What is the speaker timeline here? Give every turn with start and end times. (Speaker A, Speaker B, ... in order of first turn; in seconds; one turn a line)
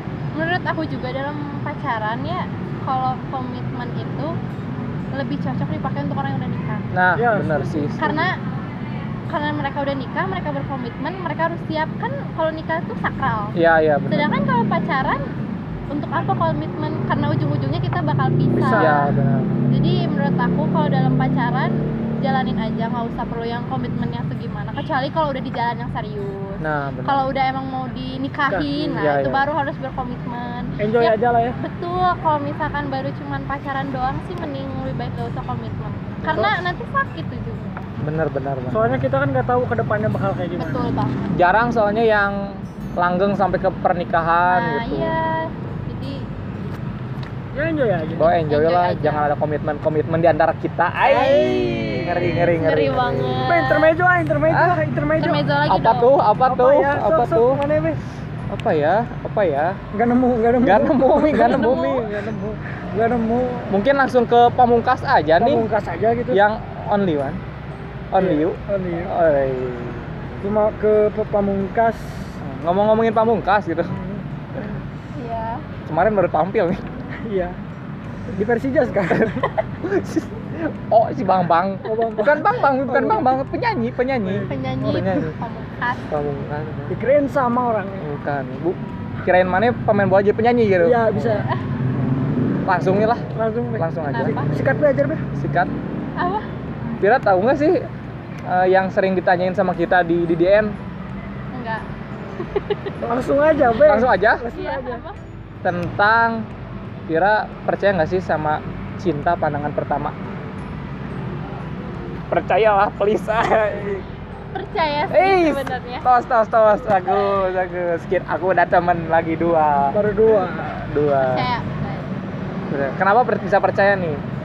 Speaker A: 0.3-4.3
Speaker A: 5.1-6.9
Speaker B: 6.9-8.2
Speaker C: 7.2-8.1
Speaker A: 8.0-8.4
Speaker A: 9.3-13.6
Speaker B: 13.6-14.4
Speaker A: 14.1-15.2
Speaker A: 15.9-19.1
Speaker C: 18.6-19.1
Speaker B: 18.7-19.6
Speaker A: 19.7-37.9
Speaker B: 26.6-27.3
Speaker C: 28.5-28.9
Speaker B: 28.8-29.5
Speaker C: 30.8-31.6
Speaker B: 36.3-36.6
Speaker B: 38.0-39.0
Speaker C: 38.7-40.9
Speaker A: 40.6-41.3
Speaker B: 41.3-45.1
Speaker A: 44.5-46.2
Speaker C: 47.5-48.3
Speaker B: 48.1-53.5
Speaker A: 48.5-49.3
Speaker A: 51.0-53.9
Speaker C: 51.1-52.5
Speaker C: 53.5-55.4
Speaker B: 54.5-54.8
Speaker A: 55.2-56.1
Speaker B: 55.7-57.6
Speaker C: 56.5-58.0
Speaker B: 58.5-59.8
Speaker C: 59.9-63.7
Speaker B: 60.6-62.1
Speaker A: 61.3-62.0
Speaker B: 63.7-65.6
Speaker C: 65.4-66.4
Speaker B: 66.3-67.4
Speaker B: 68.1-70.1
Speaker C: 68.2-69.1
Speaker C: 70.4-72.3
Speaker B: 72.4-73.9
Speaker C: 73.9-74.2
Speaker A: 75.1-75.7
Speaker B: 75.8-76.8
Speaker C: 77.2-77.6
Speaker C: 78.3-79.5
Speaker B: 79.1-85.3
Speaker C: 81.8-83.3
Speaker C: 84.2-85.1
Speaker A: 84.5-86.1
Speaker B: 86.1-86.9
Speaker C: 86.9-88.1
Speaker B: 88.0-93.2
Speaker C: 90.8-91.5
Speaker C: 93.3-95.2
Speaker B: 93.8-94.5
Speaker A: 94.1-94.5
Speaker B: 95.3-95.7
Speaker A: 96.2-96.5
Speaker B: 97.0-97.9
Speaker B: 98.5-100.7
Speaker A: 101.5-101.8
Speaker A: 102.4-102.9
Speaker C: 103.0-105.0
Speaker B: 103.8-104.5
Speaker A: 104.5-105.2
Speaker B: 105.6-106.5
Speaker B: 107.1-110.1
Speaker B: 112.3-114.0
Speaker A: 114.5-116.0
Speaker B: 115.1-121.5
Speaker C: 119.9-120.7
Speaker A: 121.2-122.1
Speaker B: 122.7-124.2